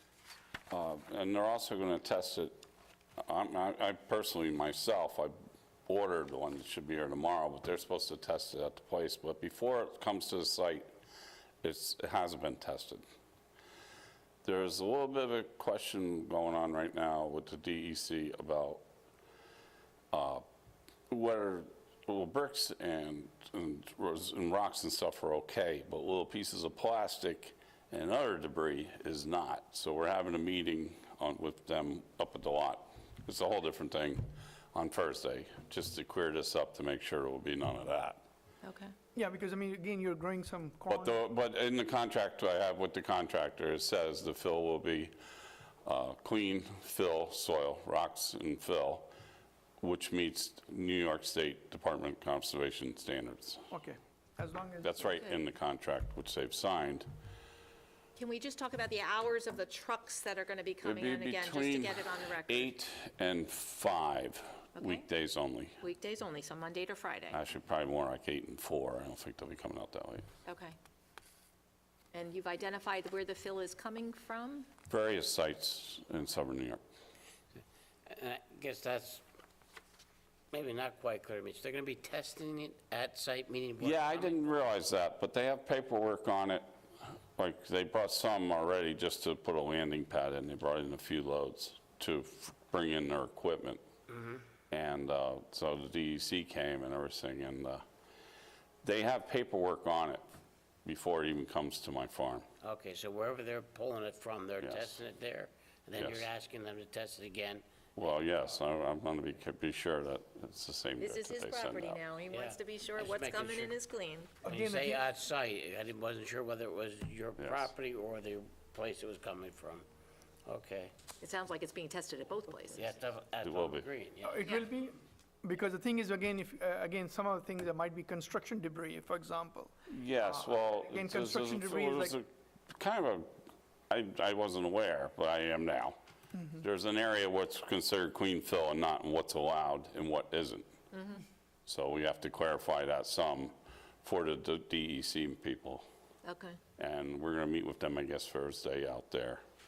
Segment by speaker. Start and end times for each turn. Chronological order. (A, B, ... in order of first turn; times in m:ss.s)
0:00.7-0:02.6 A
0:03.2-0:05.3 A
0:05.9-0:10.9 A
0:11.6-0:13.0 A
0:14.4-0:18.8 A
0:20.1-0:20.4 A
0:21.1-0:38.2 A
0:38.6-0:38.9 B
0:39.1-0:41.2 C
0:40.9-0:45.1 A
0:45.8-0:49.1 A
0:49.8-0:53.6 A
0:53.7-0:55.1 C
0:54.8-0:57.1 A
0:58.2-1:02.7 B
1:00.8-1:05.8 A
1:04.8-1:05.1 B
1:05.8-1:07.4 B
1:07.3-1:10.3 A
1:10.4-1:10.8 B
1:12.1-1:14.7 B
1:14.9-1:16.8 A
1:18.1-1:19.2 D
1:20.5-1:24.5 D
1:23.8-1:26.6 A
1:27.4-1:33.8 A
1:34.7-1:37.8 A
1:38.8-1:40.2 A
1:40.8-1:42.5 A
1:42.6-1:47.6 D
1:44.6-1:45.0 A
1:46.0-1:46.2 A
1:48.0-1:52.0 A
1:51.0-1:54.4 B
1:52.3-1:53.7 D
1:54.4-1:55.0 C
1:54.4-1:59.8 D
1:57.4-1:57.7 A
2:00.4-2:00.9 D
2:01.2-2:02.9 B
2:02.7-2:04.4 D
2:03.4-2:03.8 A
2:04.2-2:12.2 C
2:09.9-2:13.3 A
2:13.9-2:16.0 A
2:16.6-2:20.7 A
2:20.9-2:21.2 B
2:21.6-2:25.8 A
2:26.2-2:26.6 B
2:26.8-2:29.4 A